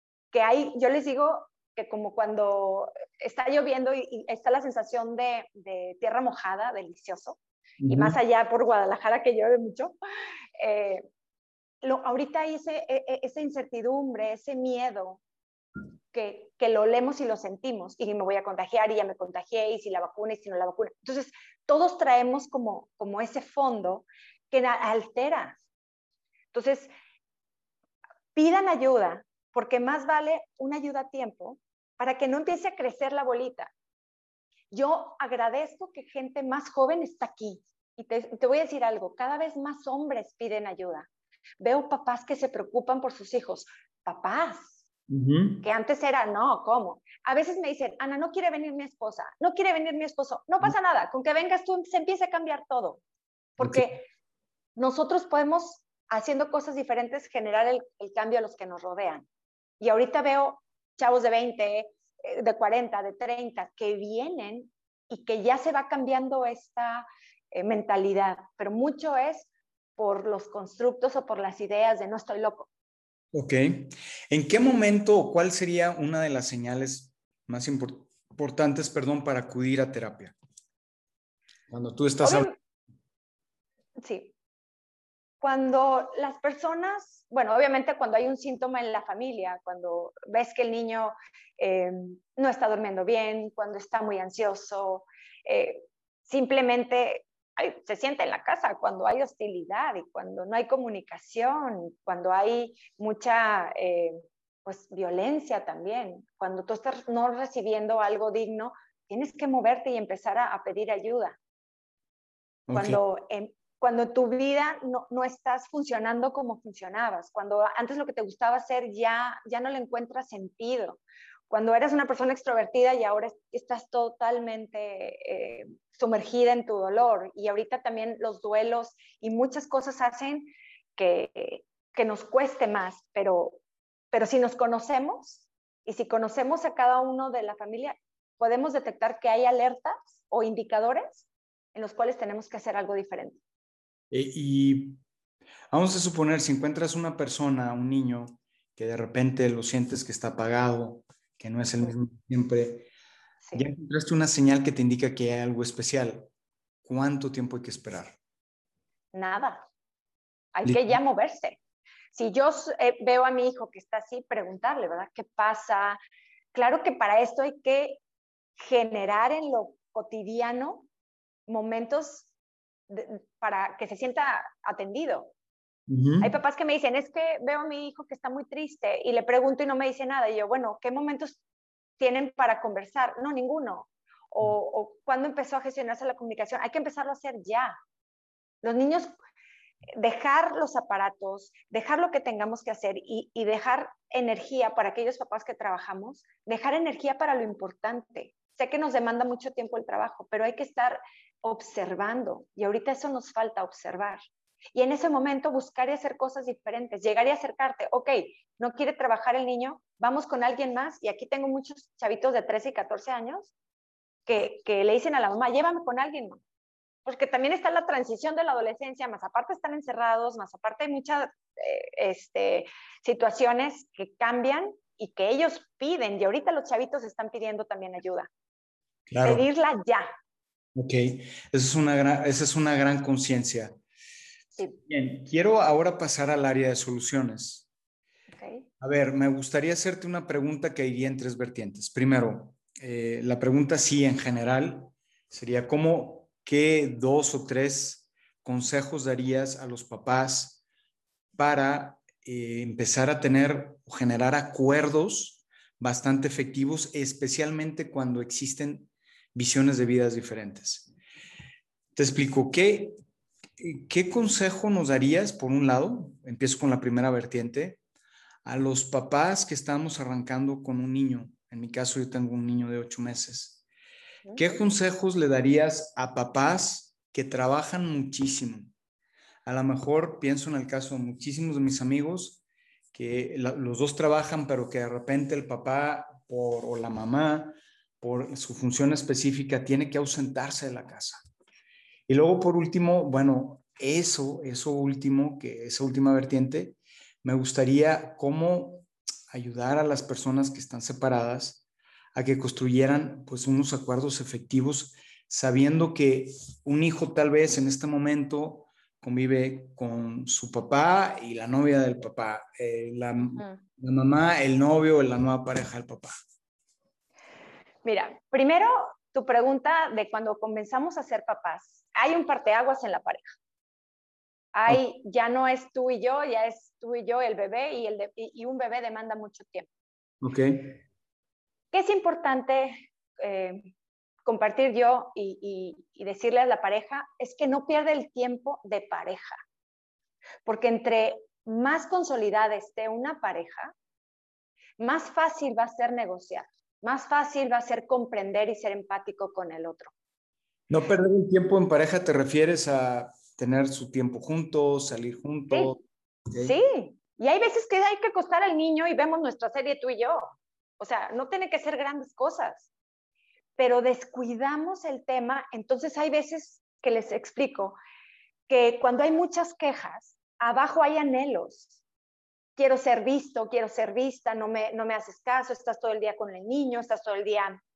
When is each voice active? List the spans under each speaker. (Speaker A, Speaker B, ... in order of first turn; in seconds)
Speaker A: 0.3-10.0, 10.6-11.0, 11.8-15.2, 16.1-25.6, 26.5-26.9, 28.4-33.7, 34.7-41.1, 41.6-44.8, 45.6-53.0, 53.6-54.0, 54.8-59.3, 59.8-72.7, 82.2-82.5, 84.0-84.3, 85.4-111.4, 112.7-133.6, 134.1-143.4, 153.4-153.7, 159.1-159.7, 160.5-161.6, 162.1-166.0, 166.5-168.0, 168.6-170.9, 171.5-172.3, 172.9-175.3, 176.2-181.4, 182.0-187.8, 188.6-189.1, 190.0-204.2, 204.8-213.5, 214.3-216.4, 217.1-228.3, 229.2-230.1, 238.3-238.7, 274.2-274.6, 317.8-323.3, 324.5-329.7, 331.7-333.7, 334.2-339.4, 340.4-343.7, 344.8-349.9, 355.5-355.8, 356.4-362.7, 363.6-367.8, 368.5-371.8, 372.6-377.6
Speaker B: 7.8-8.2, 45.1-45.6, 53.6-53.9, 73.3-80.3, 81.7-82.5, 112.7-113.0, 144.1-145.0, 145.7-152.9, 153.6-156.3, 156.8-158.2, 160.7-161.0, 175.9-176.3, 229.1-229.4, 230.8-233.8, 234.9-237.7, 238.8-250.6, 251.4-260.9, 261.9-263.0, 263.6-267.8, 268.4-273.6, 274.4-278.7, 279.5-282.4, 282.9-291.2, 292.1-301.6, 302.1-316.1, 330.2-330.8, 350.7-356.6